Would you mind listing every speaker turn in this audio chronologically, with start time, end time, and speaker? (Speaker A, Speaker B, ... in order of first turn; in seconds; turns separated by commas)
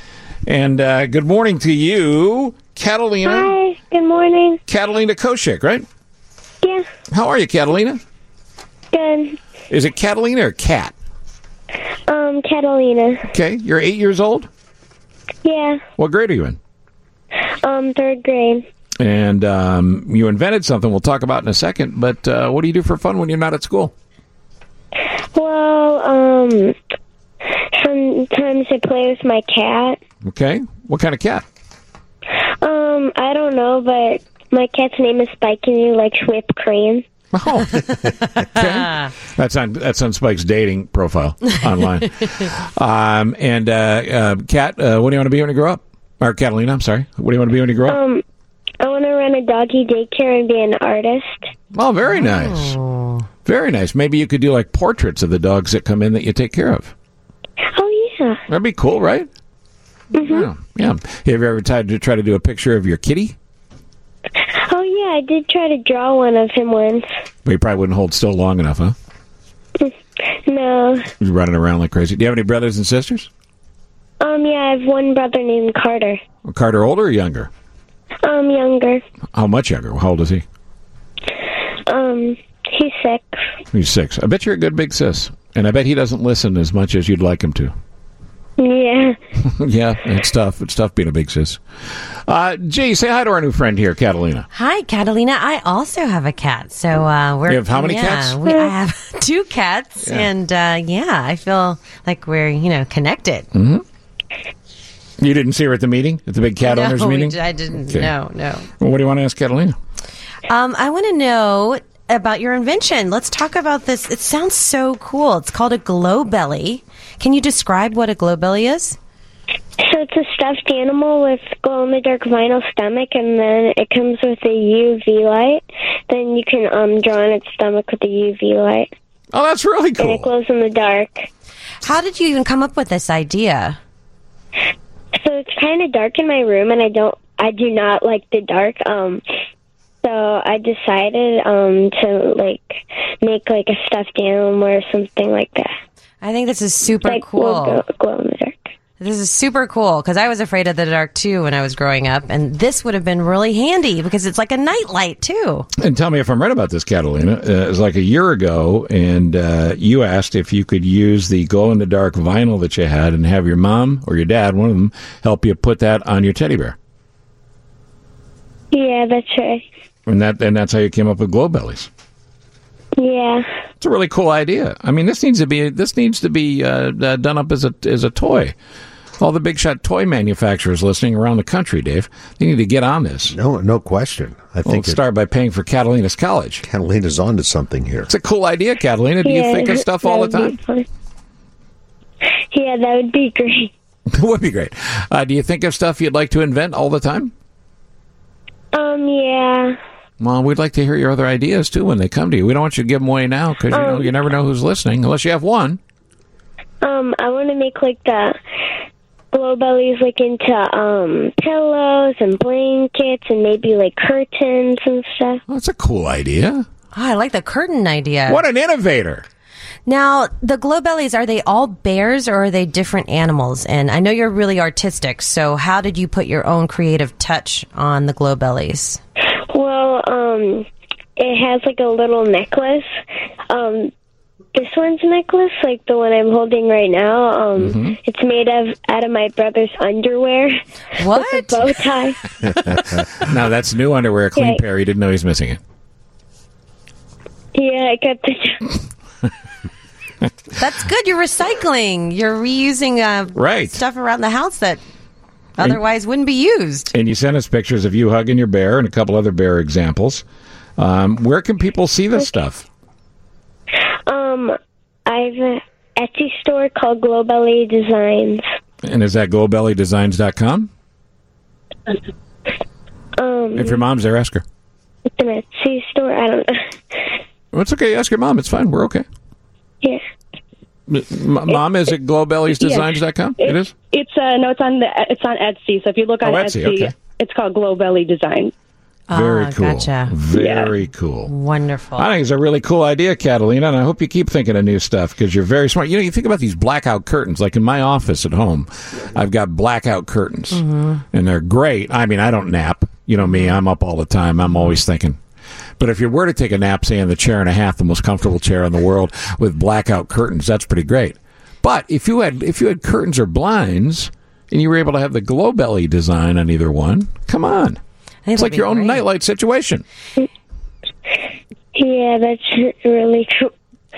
Speaker A: 0.5-3.5, Speaker B: 3.2-4.6, Speaker A: 4.7-5.9, Speaker A: 7.1-8.0, Speaker B: 8.9-9.4, Speaker A: 9.7-10.9, Speaker B: 12.1-13.3, Speaker A: 13.3-14.5, Speaker B: 15.4-15.8, Speaker A: 16.0-16.6, Speaker B: 17.5-18.6, Speaker A: 19.0-23.9, Speaker B: 25.4-26.8, Speaker B: 27.8-30.0, Speaker A: 30.2-31.4, Speaker B: 32.6-37.0, Speaker A: 37.3-48.0, Speaker B: 47.9-48.2, Speaker B: 48.8-51.5, Speaker A: 51.7-52.8, Speaker C: 52.1-53.3, Speaker A: 53.5-56.9, Speaker B: 57.7-58.4, Speaker A: 58.5-59.3, Speaker B: 60.1-60.5, Speaker A: 60.2-63.4, Speaker B: 64.5-67.0, Speaker A: 67.5-69.0, Speaker B: 69.8-71.1, Speaker A: 71.2-73.3, Speaker B: 74.2-76.2, Speaker A: 76.5-77.5, Speaker B: 78.2-79.0, Speaker A: 79.3-80.4, Speaker B: 81.9-83.4, Speaker A: 83.7-87.7, Speaker B: 88.6-89.2, Speaker A: 89.4-91.6, Speaker A: 92.3-94.5, Speaker C: 94.5-103.5, Speaker A: 97.5-98.4, Speaker A: 103.5-103.8, Speaker A: 105.2-108.1, Speaker C: 106.6-108.7, Speaker A: 108.8-109.8, Speaker C: 110.5-119.0, Speaker B: 119.8-128.9, Speaker A: 129.3-130.3, Speaker B: 130.0-131.3, Speaker C: 131.8-133.8, Speaker B: 135.2-139.2, Speaker B: 140.0-145.7, Speaker C: 146.2-147.8, Speaker B: 147.0-148.7, Speaker C: 149.0-155.7, Speaker A: 155.8-166.8, Speaker B: 168.7-169.7, Speaker A: 170.1-171.9, Speaker B: 173.0-173.4, Speaker A: 173.8-178.5, Speaker A: 179.2-183.3, Speaker D: 183.3-185.0, Speaker A: 184.7-186.6, Speaker D: 186.6-188.1, Speaker A: 188.1-190.6, Speaker B: 189.2-190.9, Speaker B: 192.5-193.7, Speaker A: 194.1-197.3, Speaker B: 198.7-199.8, Speaker A: 200.2-205.8, Speaker B: 203.7-204.1, Speaker B: 206.8-208.4, Speaker B: 209.3-215.4, Speaker A: 215.5-216.7, Speaker C: 216.9-218.4, Speaker A: 218.3-219.2, Speaker C: 219.9-229.0, Speaker B: 229.5-230.7, Speaker B: 231.2-232.9, Speaker B: 233.5-233.9, Speaker B: 234.6-242.2, Speaker A: 237.6-238.0, Speaker C: 241.0-241.7, Speaker A: 243.1-245.6, Speaker B: 244.4-244.6, Speaker B: 247.6-248.8, Speaker C: 250.6-254.8, Speaker A: 253.3-253.8, Speaker C: 255.6-256.9, Speaker A: 256.9-260.2, Speaker A: 260.8-262.7, Speaker B: 264.1-264.6, Speaker B: 265.1-268.4, Speaker A: 268.8-270.7, Speaker B: 273.2-273.8, Speaker A: 273.6-274.4, Speaker B: 275.2-277.1, Speaker A: 277.5-279.1, Speaker A: 280.9-283.7, Speaker E: 282.6-288.5, Speaker A: 286.2-286.9, Speaker C: 289.1-290.1, Speaker A: 289.1-291.3, Speaker E: 290.3-290.7, Speaker C: 291.3-292.1, Speaker A: 292.0-305.2, Speaker C: 300.5-301.0, Speaker A: 305.8-317.8, Speaker C: 318.2-319.1, Speaker A: 318.4-319.8, Speaker B: 321.8-323.5